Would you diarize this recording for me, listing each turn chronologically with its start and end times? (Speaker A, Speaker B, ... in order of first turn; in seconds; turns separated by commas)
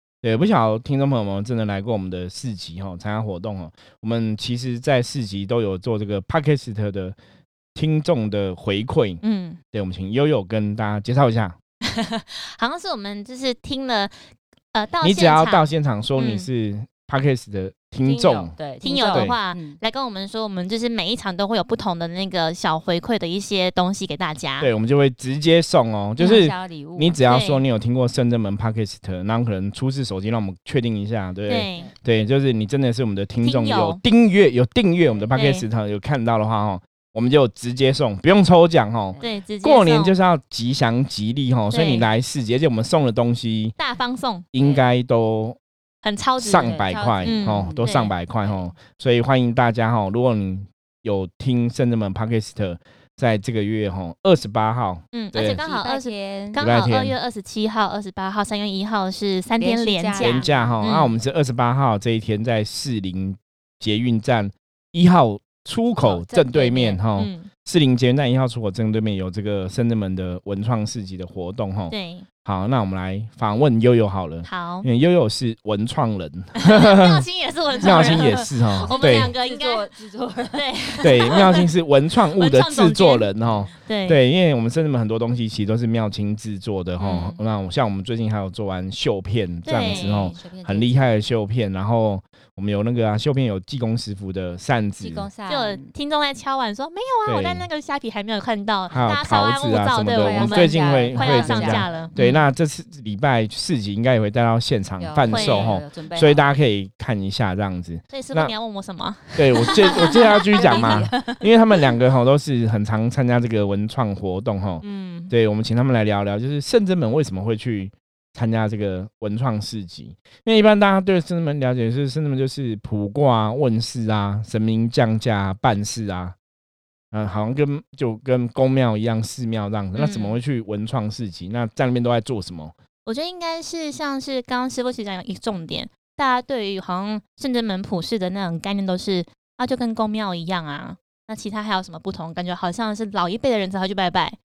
Speaker A: 0.2-7.2, Speaker A: 7.8-9.2, Speaker B: 9.2-9.6, Speaker A: 9.7-11.6, Speaker B: 11.8-14.2, Speaker B: 14.7-16.5, Speaker A: 15.0-18.6, Speaker C: 18.0-19.8, Speaker B: 18.8-24.7, Speaker A: 19.1-19.4, Speaker A: 24.6-43.8, Speaker C: 26.2-27.2, Speaker B: 27.3-27.6, Speaker B: 31.5-31.9, Speaker B: 33.4-34.0, Speaker C: 35.1-35.3, Speaker B: 35.3-35.7, Speaker C: 39.1-39.4, Speaker B: 39.2-40.1, Speaker B: 41.7-42.1, Speaker B: 43.8-44.5, Speaker A: 44.5-45.6, Speaker C: 44.6-44.9, Speaker B: 46.0-48.1, Speaker A: 46.4-55.6, Speaker C: 46.6-47.9, Speaker C: 48.4-48.8, Speaker B: 55.1-61.1, Speaker C: 55.4-56.6, Speaker A: 56.6-57.2, Speaker C: 59.6-60.8, Speaker A: 60.2-77.2, Speaker C: 66.0-67.0, Speaker B: 67.1-67.5, Speaker B: 71.9-72.3, Speaker B: 74.4-74.9, Speaker B: 76.6-79.9, Speaker C: 77.7-81.5, Speaker A: 77.8-79.3, Speaker B: 80.5-81.6, Speaker A: 81.0-95.3, Speaker B: 82.3-83.3, Speaker C: 83.4-83.8, Speaker B: 83.8-84.2, Speaker B: 87.0-87.4, Speaker B: 89.7-90.4, Speaker C: 89.8-91.0, Speaker C: 95.0-95.9, Speaker B: 95.5-102.5, Speaker A: 97.3-97.7, Speaker A: 98.9-108.5, Speaker C: 100.1-102.1, Speaker C: 105.0-106.5, Speaker B: 105.3-105.8, Speaker B: 108.1-111.4, Speaker A: 109.3-126.3, Speaker C: 109.8-111.4, Speaker B: 114.8-115.3, Speaker A: 127.1-132.7, Speaker B: 129.9-130.4, Speaker B: 133.1-144.4